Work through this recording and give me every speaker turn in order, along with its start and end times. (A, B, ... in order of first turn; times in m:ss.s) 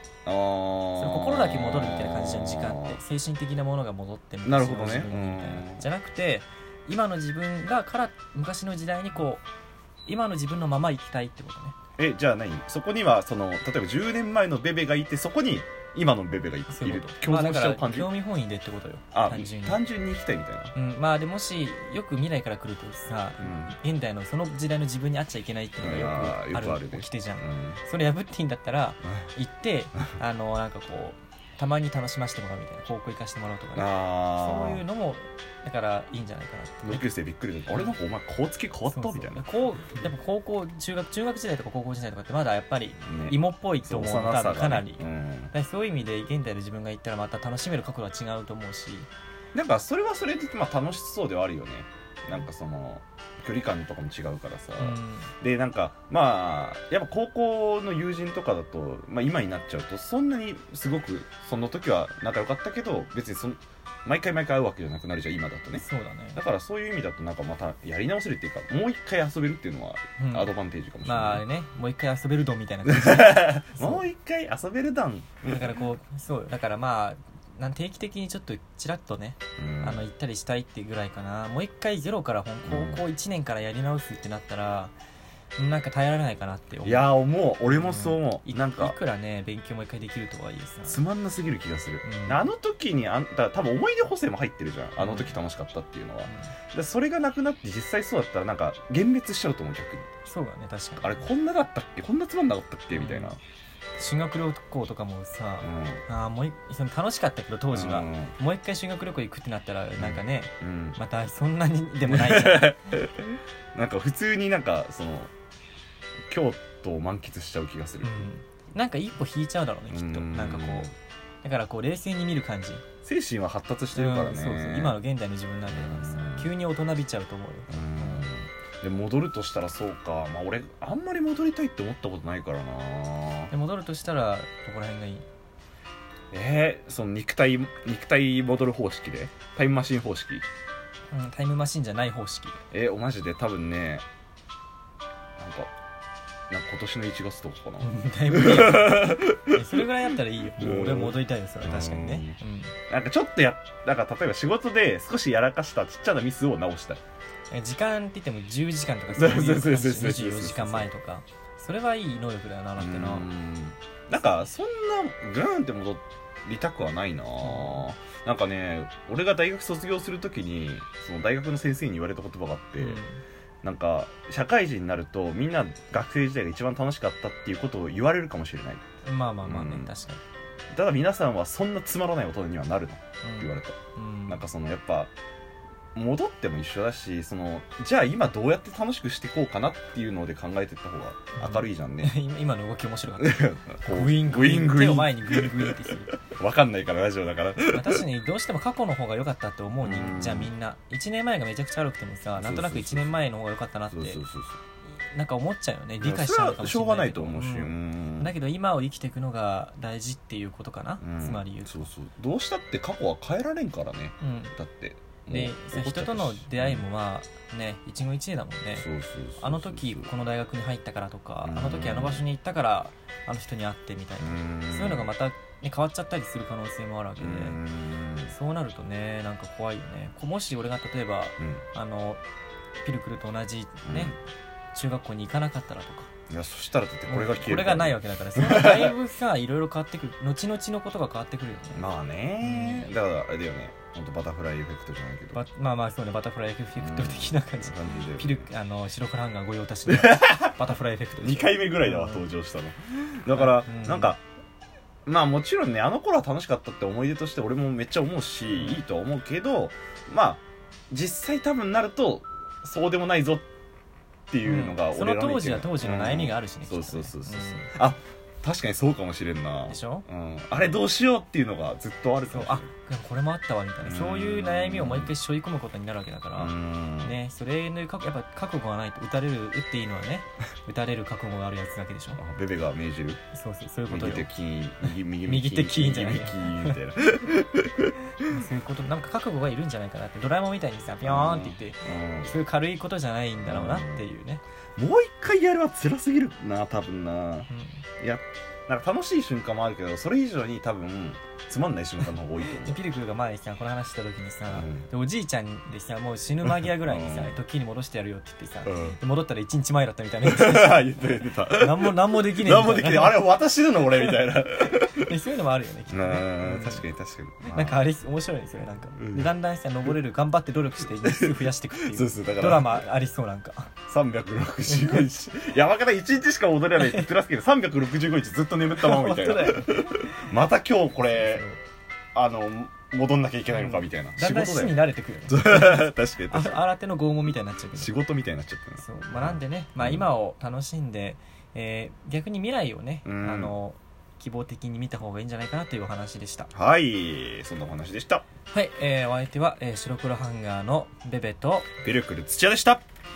0:00.2-0:03.0 A
0:01.0-0:09.4 B
0:04.4-0:05.9 A
0:10.1-0:11.8 B
0:12.0-0:18.1 A
0:16.7-0:19.8 B
0:19.1-0:20.7 A
0:20.8-0:37.0 B
0:23.4-0:23.8 A
0:25.8-0:27.8 A
0:33.8-0:34.8 A
0:36.8-0:39.4 A
0:38.9-0:49.1 B
0:43.0-0:45.5 A
0:49.5-1:05.8 A
0:54.8-0:55.3 B
1:05.8-1:06.4 B
1:06.4-1:11.4 A
1:10.2-1:10.5 B
1:11.0-1:14.0 B
1:12.8-1:15.7 A
1:15.4-1:24.9 B
1:19.6-1:20.0 A
1:22.6-1:23.0 A
1:25.6-1:27.1 B
1:26.8-1:29.0 A
1:27.7-1:31.0 B
1:30.9-1:40.1 A
1:32.0-1:32.5 B
1:35.0-1:35.4 B
1:36.3-1:36.5 B
1:40.2-1:41.2 B
1:41.0-1:43.4 A
1:42.9-1:43.3 B
1:44.0-1:52.8 B
1:45.6-1:46.0 A
1:47.7-1:48.3 A
1:50.0-1:51.0 A
1:52.1-1:55.3 A
1:56.3-1:58.3 A
1:58.0-2:00.9 B
1:59.9-2:00.9 A
2:01.4-2:02.8 B
2:03.0-2:05.0 A
2:03.9-2:08.3 B
2:05.7-2:06.5 A
2:07.7-2:13.5 A
2:13.5-2:15.2 B
2:16.3-2:20.4 A
2:21.1-2:22.6 B
2:22.7-2:24.0 A
2:25.4-2:25.7 A
2:26.5-2:29.9 A
2:27.8-2:32.7 B
2:30.6-2:32.4 A
2:32.9-2:37.0 A
2:37.5-2:43.3 B
2:39.2-2:40.9 A
2:42.8-2:53.0 A
2:47.4-2:47.9 B
2:52.8-2:53.2 B
2:53.6-2:58.8 A
2:59.0-3:00.2 B
2:59.4-2:59.9 A
3:00.7-3:05.1 A
3:03.2-3:04.4 B
3:06.0-3:12.1 A
3:11.4-3:16.2 B
3:13.2-3:18.0 A
3:17.6-3:24.2 B
3:19.8-3:20.5 A
3:22.4-3:23.2 A
3:23.9-3:24.6 A
3:24.9-3:31.9 B
3:26.0-3:28.3 A
3:31.0-3:36.8 A
3:34.2-3:34.5 B
3:35.3-3:38.9 B
3:38.8-3:40.1 A
3:39.4-3:47.6 B
3:41.4-3:42.2 A
3:44.2-3:45.1 A
3:47.2-3:48.3 A
3:48.3-3:52.2 B
3:51.4-3:51.6 A
3:52.8-3:54.2 B
3:53.9-3:54.2 A
3:54.7-3:56.1 B
3:56.3-3:59.0 A
3:57.1-4:01.8 B
4:01.7-4:05.4 A
4:02.4-4:02.9 B
4:05.3-4:12.2 B
4:06.8-4:08.5 A
4:09.9-4:14.2 A
4:13.3-4:14.1 B
4:15.0-4:23.5 A
4:18.5-4:18.8 B
4:24.3-4:32.7 A
4:24.4-4:27.7 B
4:29.7-4:30.0 B
4:32.3-4:42.2 B
4:33.8-4:35.1 A
4:36.4-4:37.2 A
4:42.2-4:43.2 A
4:43.3-4:44.3 B
4:43.9-4:48.4 A
4:45.2-4:46.8 B
4:48.3-4:54.4 B
4:51.0-4:52.4 A
4:53.4-4:54.0 A
4:54.8-4:57.5 A
4:57.5-4:57.8 B
4:58.0-5:02.8 A
5:02.5-5:13.3 B
5:04.5-5:04.9 A
5:06.4-5:07.4 A
5:08.6-5:09.0 A
5:10.2-5:15.1 A
5:14.0-5:16.8 B
5:15.9-5:17.8 A
5:17.4-5:23.7 B
5:19.0-5:19.3 A
5:21.0-5:22.8 A
5:23.9-5:31.4 A
5:24.7-5:25.0 B
5:26.8-5:27.1 B
5:28.8-5:30.3 B
5:31.1-5:31.6 B
5:32.1-5:36.6 A
5:33.5-5:37.9 B
5:37.7-5:40.1 A
5:38.8-5:46.5 B
5:43.0-5:43.6 A
5:46.5-5:48.2 A
5:48.5-5:51.7 B
5:51.8-5:52.8 A